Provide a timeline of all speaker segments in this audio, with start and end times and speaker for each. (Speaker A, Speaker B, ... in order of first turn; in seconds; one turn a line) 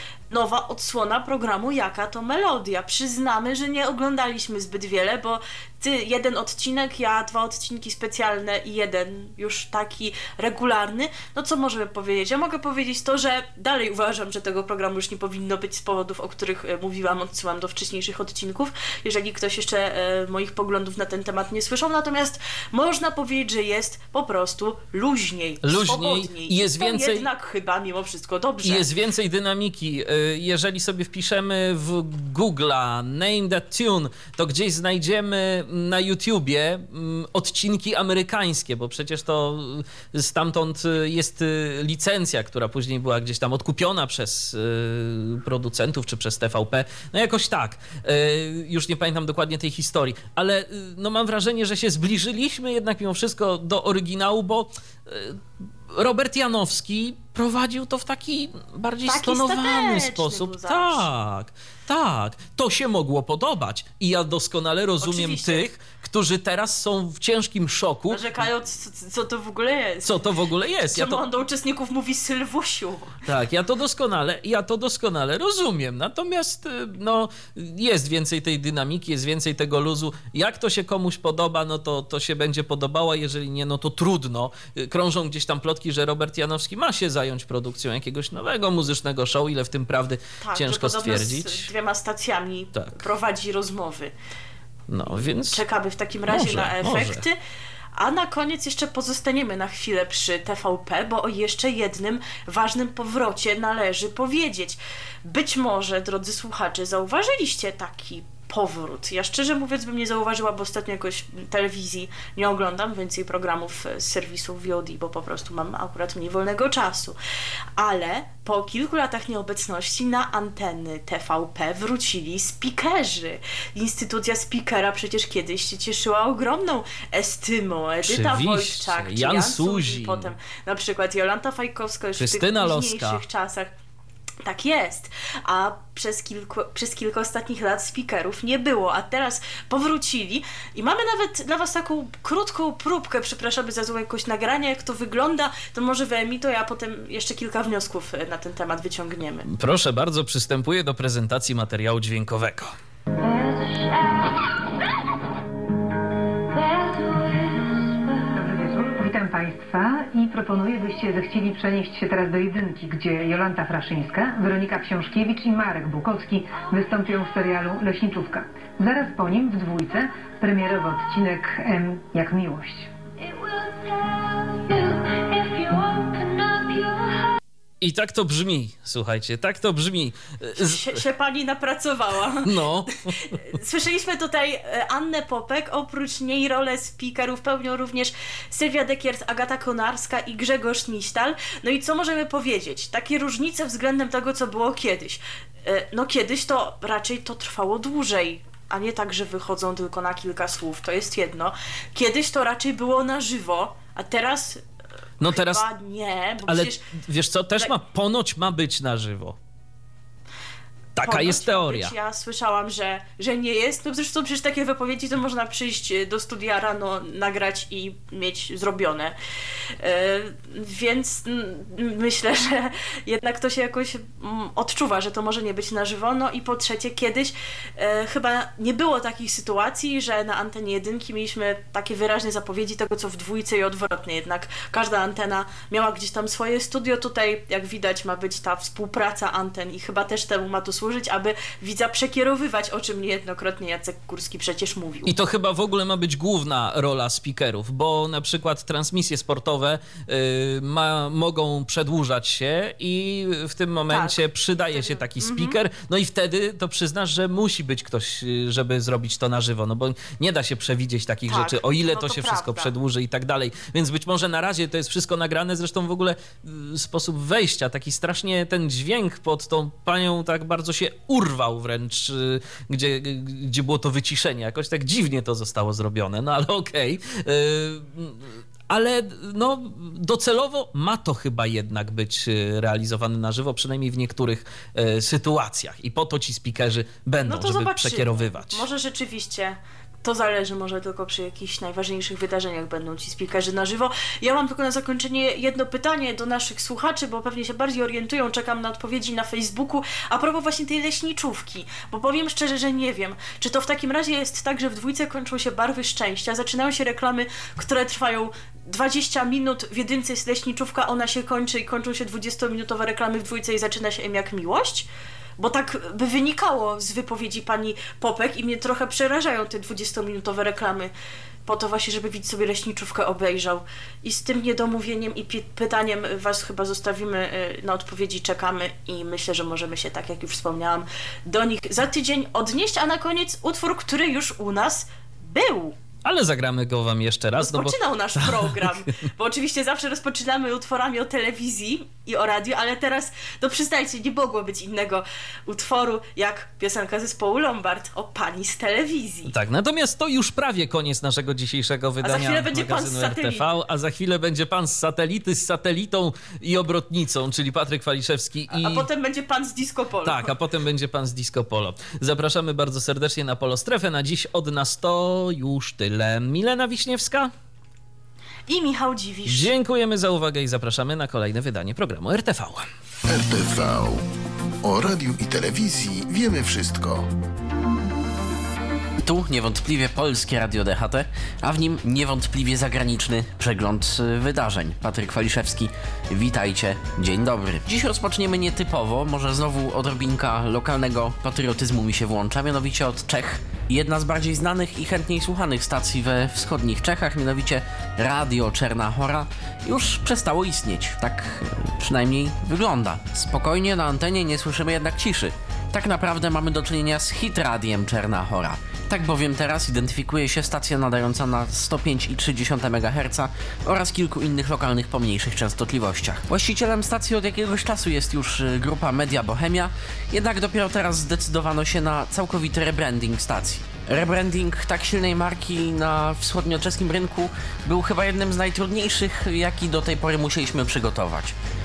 Speaker A: 0.3-28.9
Speaker B: 25.6-27.3
Speaker B: 28.6-55.4
Speaker B: 55.9-68.3
Speaker A: 59.0-61.0
Speaker A: 65.0-65.6
Speaker A: 68.1-70.2
Speaker B: 70.0-71.2
Speaker A: 70.9-73.2
Speaker B: 73.2-91.7
Speaker A: 90.4-94.1
Speaker B: 92.7-93.0
Speaker B: 94.9-95.6
Speaker A: 95.1-97.4
Speaker B: 96.3-97.2
Speaker A: 98.0-117.2
Speaker A: 117.8-133.7
Speaker B: 128.0-130.3
Speaker B: 132.2-133.2
Speaker A: 134.4-149.5
Speaker B: 149.5-152.7
Speaker C: 153.2-154.6
Speaker C: 156.5-158.3
Speaker D: 158.3-172.9
Speaker C: 173.2-177.3
Speaker B: 177.8-181.0
Speaker A: 180.6-182.5
Speaker B: 182.4-183.4
Speaker A: 183.2-204.6
Speaker B: 205.2-205.6
Speaker A: 205.3-206.9
Speaker B: 206.4-209.4
Speaker B: 210.9-211.9
Speaker A: 211.0-219.2
Speaker A: 219.8-245.1
Speaker B: 245.1-278.2
Speaker A: 253.9-255.6
Speaker A: 261.3-262.7
Speaker B: 278.7-288.6
Speaker A: 287.2-314.9
Speaker A: 315.4-320.9
Speaker A: 321.4-335.7
Speaker B: 336.0-338.8
Speaker A: 337.4-349.3
Speaker B: 349.3-358.9
Speaker A: 352.0-353.6
Speaker A: 358.5-360.3
Speaker B: 360.0-367.3
Speaker A: 368.5-369.5
Speaker B: 369.2-372.6
Speaker E: 373.1-374.1
Speaker E: 374.6-377.1
Speaker F: 379.0-431.3